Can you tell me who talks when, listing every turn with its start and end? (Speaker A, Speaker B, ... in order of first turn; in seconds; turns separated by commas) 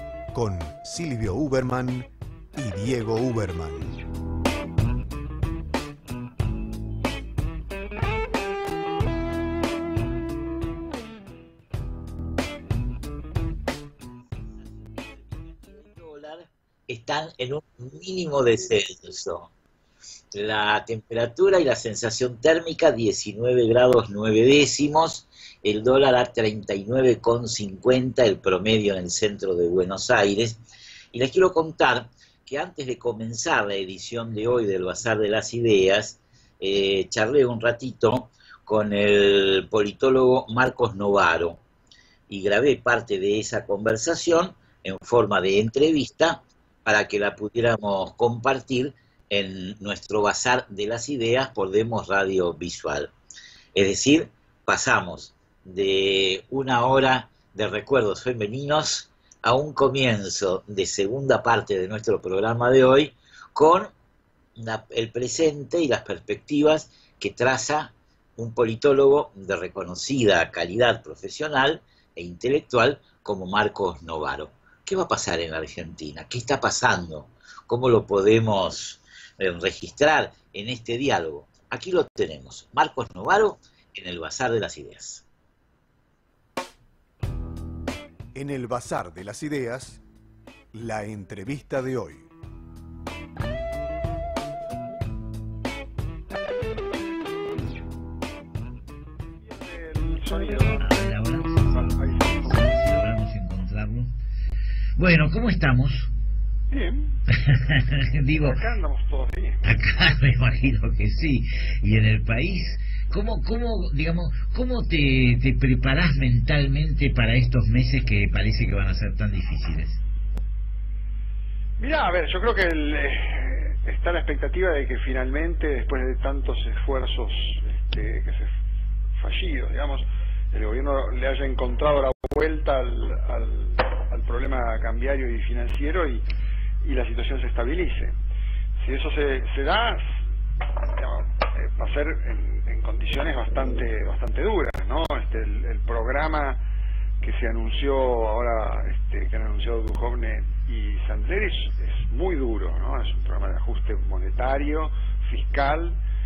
Speaker A: 0.3-4.0, Speaker B: 14.9-19.5, Speaker B: 20.3-30.6, Speaker B: 31.1-41.6, Speaker B: 42.3-53.1, Speaker B: 53.7-63.9, Speaker B: 64.6-85.2, Speaker A: 88.3-90.0, Speaker A: 90.7-92.3, Speaker C: 99.5-100.8, Speaker B: 100.8-104.1, Speaker B: 105.0-106.1, Speaker C: 106.7-107.2, Speaker B: 107.4-108.6, Speaker C: 108.4-109.6, Speaker B: 109.6-120.0, Speaker C: 121.8-128.5, Speaker C: 129.2-136.2, Speaker C: 136.8-138.1, Speaker C: 138.8-140.2, Speaker C: 140.8-146.6, Speaker C: 147.2-156.0